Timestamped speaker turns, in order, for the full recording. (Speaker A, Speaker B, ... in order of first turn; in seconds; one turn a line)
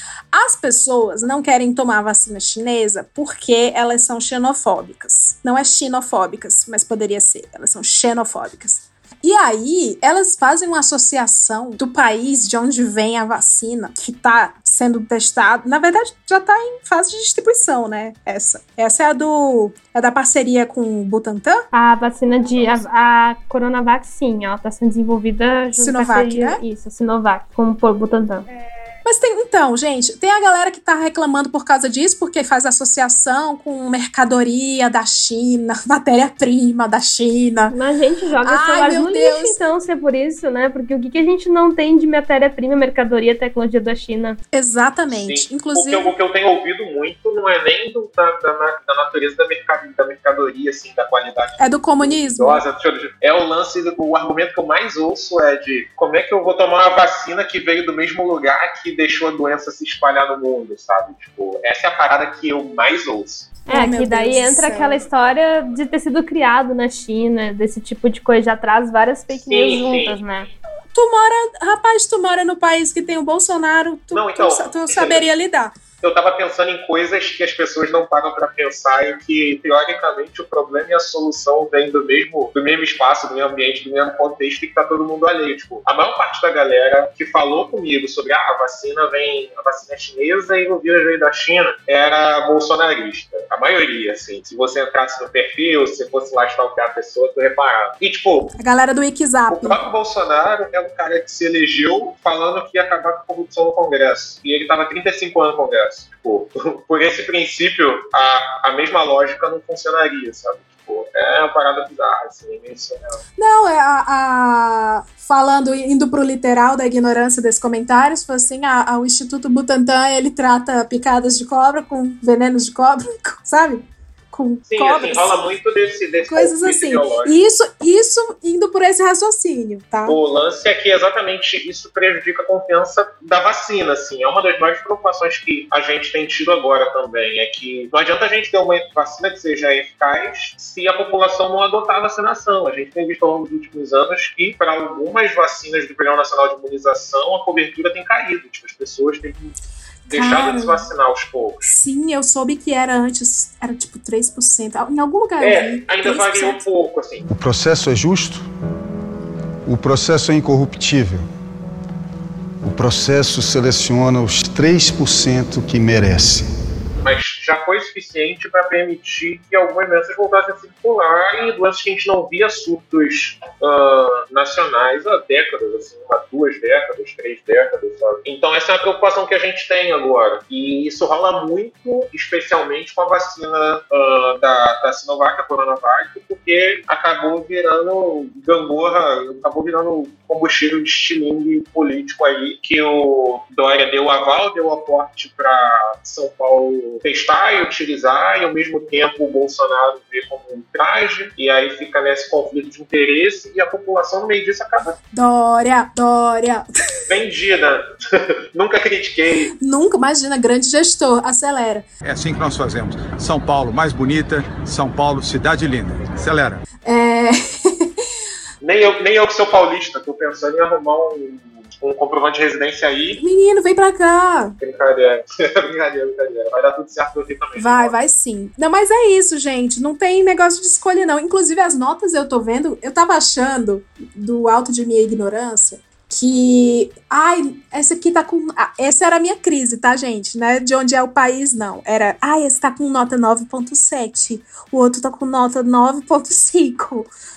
Speaker A: 0.3-21.6
Speaker B: 21.7-28.5
Speaker A: 25.7-26.6
Speaker A: 29.0-37.8
Speaker B: 37.7-44.4
Speaker A: 38.4-39.6
Speaker A: 44.5-46.1
Speaker C: 45.1-63.5
Speaker A: 51.6-52.6
Speaker A: 63.7-65.0
Speaker B: 63.7-70.5
Speaker C: 69.3-70.2
Speaker A: 70.9-75.7
Speaker C: 74.1-75.2
Speaker C: 76.0-98.5
Speaker A: 98.5-99.8
Speaker C: 99.5-113.2
Speaker A: 113.4-125.4
Speaker C: 124.7-127.4
Speaker A: 126.3-130.2
Speaker C: 130.1-149.5
Speaker C: 150.1-151.7
Speaker A: 150.1-150.8
Speaker A: 151.6-156.7
Speaker C: 155.4-157.2
Speaker D: 157.3-158.4
Speaker D: 159.7-161.2
Speaker D: 162.6-166.5
Speaker C: 167.0-204.9
Speaker A: 205.1-206.7
Speaker C: 207.1-209.5
Speaker A: 209.6-211.8
Speaker E: 212.0-216.6
Speaker A: 216.8-217.9
Speaker C: 218.6-223.2
Speaker A: 223.2-224.6
Speaker C: 224.6-227.9
Speaker A: 227.6-247.1